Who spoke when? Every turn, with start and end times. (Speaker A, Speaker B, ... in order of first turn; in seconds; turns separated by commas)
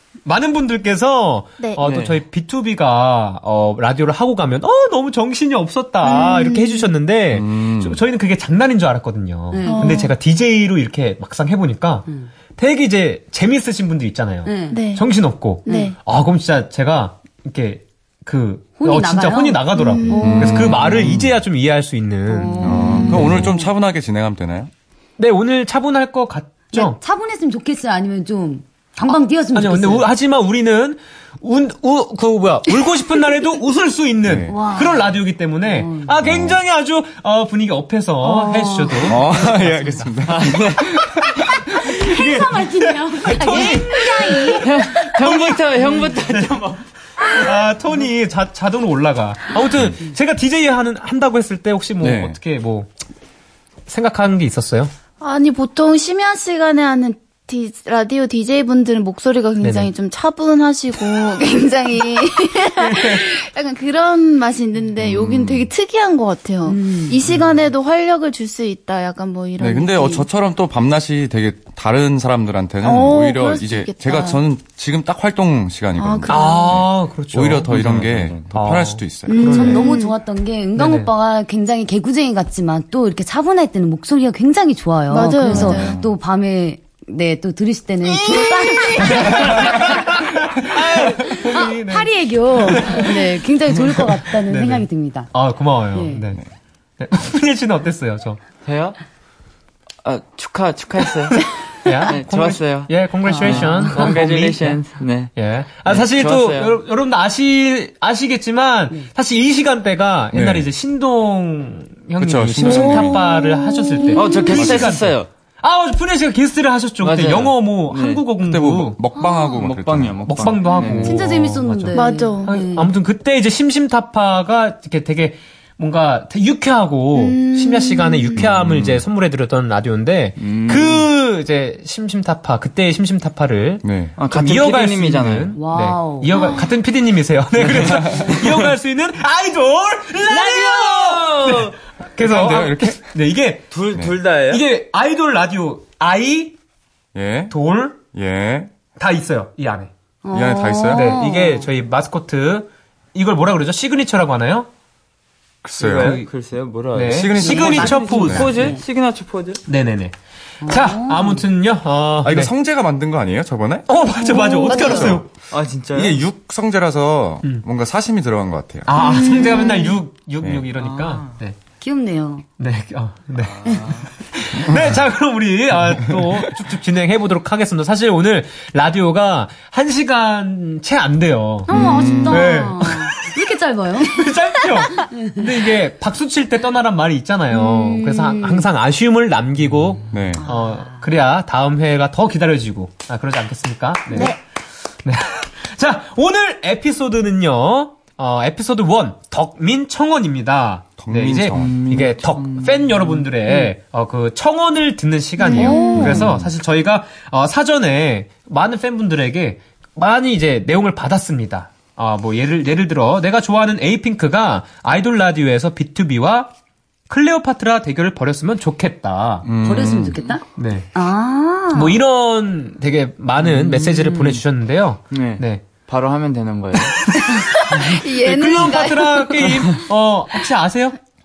Speaker A: 0.2-23.4, Speaker B: 1.6-1.9, Speaker C: 1.8-2.2, Speaker B: 6.0-6.9, Speaker D: 7.3-8.0, Speaker E: 9.5-10.1, Speaker B: 9.7-10.2, Speaker E: 14.4-14.8, Speaker B: 14.7-15.1, Speaker B: 15.7-16.0, Speaker E: 15.7-15.9, Speaker E: 18.8-20.9, Speaker B: 19.8-20.5, Speaker D: 20.2-21.4, Speaker E: 22.3-23.7, Speaker D: 22.6-24.7, Speaker B: 22.9-23.2, Speaker A: 25.2-27.0, Speaker E: 26.7-30.1, Speaker A: 29.5-40.1, Speaker D: 34.2-34.6, Speaker E: 34.5-36.1, Speaker D: 36.2-36.6, Speaker E: 38.2-39.2, Speaker D: 39.0-41.6, Speaker C: 40.3-41.0, Speaker E: 41.9-45.0, Speaker A: 41.9-46.6, Speaker C: 44.6-46.8, Speaker A: 47.3-52.9, Speaker D: 52.0-52.4, Speaker A: 53.9-54.9, Speaker B: 55.2-70.3, Speaker A: 59.6-59.9, Speaker A: 62.8-63.2, Speaker D: 65.0-65.7, Speaker E: 66.7-67.2, Speaker D: 69.6-79.7, Speaker B: 72.8-74.4, Speaker B: 76.0-76.8, Speaker A: 76.3-77.8, Speaker C: 77.7-78.5, Speaker A: 78.5-79.9, Speaker B: 79.3-80.2, Speaker E: 79.5-89.9, Speaker A: 80.8-81.1, Speaker B: 85.1-86.0, Speaker D: 85.5-86.1, Speaker B: 88.3-89.1, Speaker A: 89.0-93.3, Speaker E: 91.2-95.3, Speaker A: 94.3-96.4, Speaker E: 95.9-96.2, Speaker A: 97.0-98.4, Speaker C: 98.6-99.0, Speaker C: 100.0-101.5, Speaker A: 101.8-104.8, Speaker C: 102.0-105.3, Speaker E: 103.2-104.1, Speaker A: 105.3-119.0, Speaker C: 105.8-106.8, Speaker D: 110.3-110.7, Speaker D: 112.2-113.3, Speaker E: 113.2-114.3, Speaker B: 113.6-114.4, Speaker C: 114.1-115.3, Speaker D: 114.5-114.9, Speaker C: 117.0-118.2, Speaker D: 118.4-120.5, Speaker E: 119.2-119.5, Speaker C: 119.6-121.2, Speaker A: 120.3-143.7, Speaker E: 121.0-122.9, Speaker B: 122.0-122.6, Speaker B: 127.1-128.5, Speaker D: 128.3-129.0, Speaker C: 130.4-131.1, Speaker D: 133.8-134.2, Speaker C: 134.2-135.5, Speaker E: 135.6-136.5, Speaker B: 136.3-136.7, Speaker C: 137.6-138.7, Speaker C: 140.3-141.8, Speaker D: 142.2-143.0, Speaker C: 143.7-144.7, Speaker A: 144.5-146.6, Speaker D: 147.2-148.8, Speaker A: 147.5-148.0, Speaker A: 149.0-149.9, Speaker E: 150.2-151.7, Speaker D: 150.3-151.2, Speaker A: 150.9-154.7, Speaker D: 155.6-156.2, Speaker C: 155.8-159.6, Speaker A: 155.8-156.2, Speaker A: 156.9-158.5, Speaker D: 157.1-158.5, Speaker E: 157.4-158.8, Speaker A: 159.7-160.1, Speaker E: 160.6-161.4, Speaker A: 160.7-162.5, Speaker D: 162.2-163.9, Speaker A: 163.9-165.3, Speaker B: 164.2-165.2, Speaker D: 164.8-165.2, Speaker C: 165.5-166.2, Speaker D: 165.9-168.9, Speaker A: 168.9-171.6, Speaker B: 168.9-170.0, Speaker D: 170.4-170.7, Speaker C: 170.8-171.3, Speaker E: 171.8-172.4, Speaker A: 172.6-183.3, Speaker C: 173.4-174.1, Speaker E: 173.7-174.0, Speaker E: 181.7-185.5, Speaker D: 181.7-182.6, Speaker A: 184.0-194.4, Speaker E: 187.5-188.7, Speaker D: 190.1-190.4, Speaker E: 190.4-191.0, Speaker A: 195.0-216.5, Speaker D: 201.0-202.1, Speaker C: 201.6-203.2, Speaker B: 205.4-206.2, Speaker E: 205.5-206.1, Speaker D: 206.0-206.5, Speaker A: 217.1-219.5, Speaker D: 219.4-220.2, Speaker E: 219.6-222.0, Speaker A: 220.6-220.9, Speaker A: 221.7-225.6, Speaker C: 223.4-224.4, Speaker C: 225.1-227.1, Speaker A: 226.8-231.0, Speaker B: 227.7-229.4